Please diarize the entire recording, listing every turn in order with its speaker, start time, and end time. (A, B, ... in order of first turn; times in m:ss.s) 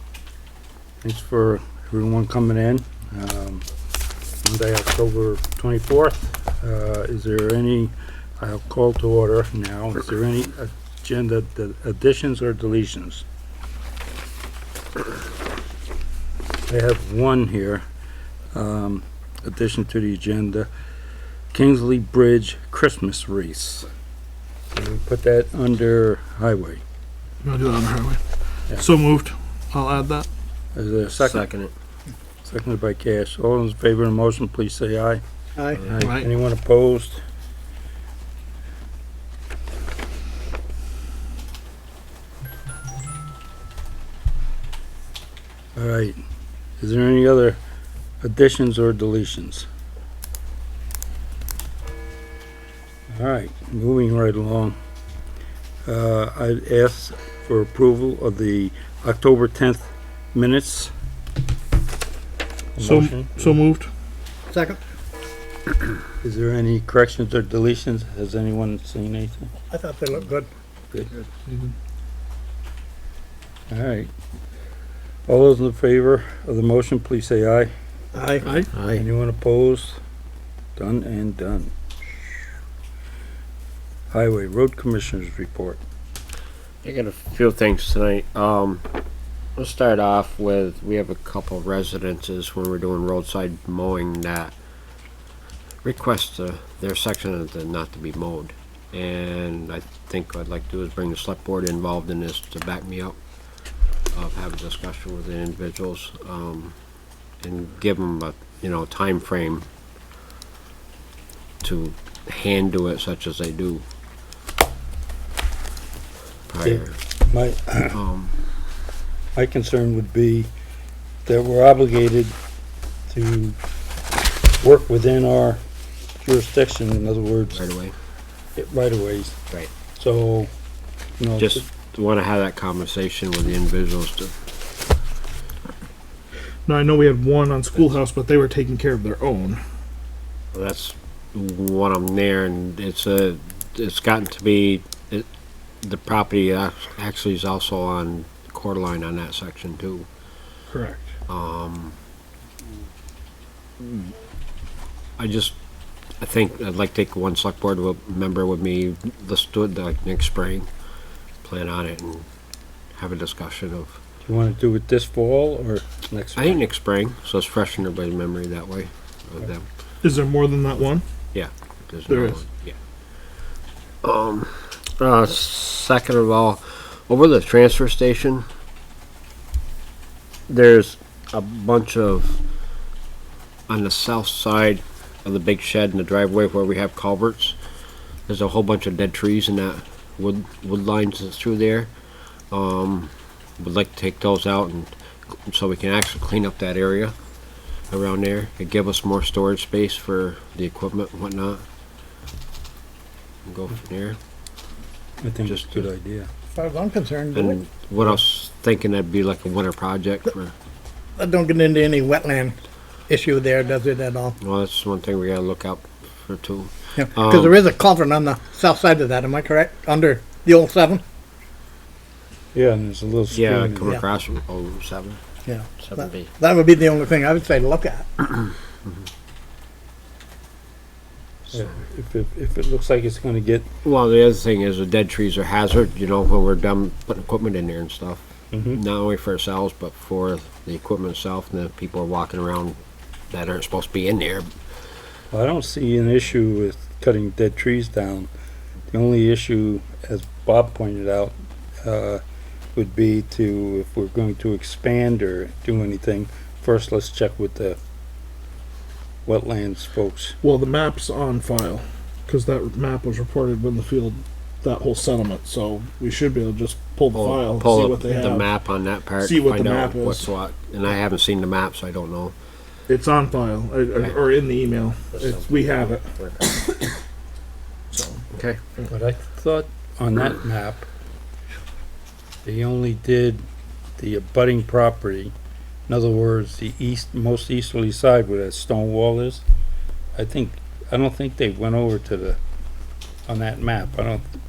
0:01.0-0:03.6 A
0:04.4-0:13.2 A
0:16.7-0:17.8 A
0:18.5-0:20.7 A
0:21.5-0:23.9 A
0:24.7-0:26.8 A
0:27.4-0:30.3 B
0:30.8-0:31.4 A
0:31.2-0:31.7 C
0:32.4-0:35.2 A
0:35.7-0:37.2 A
0:36.0-0:36.3 B
0:45.7-0:46.2 A
0:46.8-0:47.6 A
0:48.2-0:49.7 A
0:53.1-0:54.8 A
0:55.8-1:00.9 A
1:02.8-1:03.6 A
1:02.8-1:03.9 B
1:04.5-1:04.8 D
1:06.2-1:09.5 A
1:09.7-1:10.5 D
1:13.7-1:14.1 A
1:15.3-1:17.7 A
1:18.1-1:18.5 D
1:18.4-1:20.0 A
1:20.8-1:21.7 A
1:24.1-1:25.8 A
1:26.8-1:28.9 C
1:29.6-1:34.5 C
1:35.8-1:43.2 C
1:44.1-1:46.7 C
1:47.4-1:49.7 C
1:51.6-1:53.8 C
1:56.5-1:57.0 C
1:56.6-1:58.0 A
1:57.9-1:58.3 C
1:59.3-2:00.5 A
2:01.2-2:02.3 A
2:03.1-2:03.6 A
2:04.6-2:05.6 A
2:06.2-2:07.6 A
2:07.5-2:07.9 C
2:08.6-2:09.4 A
2:09.9-2:10.5 A
2:11.2-2:11.7 A
2:11.4-2:14.3 C
2:16.7-2:19.6 B
2:20.5-2:25.3 C
2:25.8-2:30.1 C
2:30.7-2:31.1 B
2:31.3-2:32.0 C
2:35.2-2:35.6 C
2:36.2-2:40.7 C
2:41.4-2:42.2 C
2:42.9-2:44.0 C
2:44.2-2:46.6 A
2:46.4-2:49.7 C
2:50.0-2:51.0 B
2:51.3-2:52.8 C
2:52.1-2:52.4 B
2:54.0-2:58.4 C
3:00.5-3:02.4 C
3:03.7-3:07.6 C
3:08.3-3:11.9 C
3:12.5-3:14.9 C
3:15.5-3:17.2 C
3:17.9-3:21.6 C
3:23.4-3:24.2 C
3:25.2-3:26.3 A
3:25.4-3:25.8 C
3:26.5-3:27.6 D
3:27.3-3:30.5 C
3:31.2-3:32.6 D
3:33.1-3:34.4 D
3:34.4-3:37.6 C
3:36.9-3:41.0 D
3:42.5-3:44.0 A
3:43.3-3:45.2 C
3:45.4-3:48.3 D
3:45.8-3:46.3 C
3:51.5-3:53.7 A
3:53.8-3:58.2 C
3:58.5-3:58.8 A
3:58.7-4:02.8 C
4:03.3-4:04.5 C
4:05.3-4:08.3 A
4:08.9-4:11.3 A
4:11.8-4:12.2 A
4:12.8-4:17.8 A
4:19.2-4:20.4 A
4:20.4-4:28.5 B
4:27.1-4:32.3 C
4:29.2-4:30.3 B
4:32.9-4:36.9 B
4:35.2-4:35.6 C
4:36.2-4:36.4 C
4:37.9-4:38.2 B
4:38.3-4:38.6 C
4:38.9-4:40.9 A
4:42.4-4:43.4 A
4:44.0-4:45.3 A
4:45.9-4:49.4 A
4:50.2-4:52.4 A
4:53.3-4:54.2 A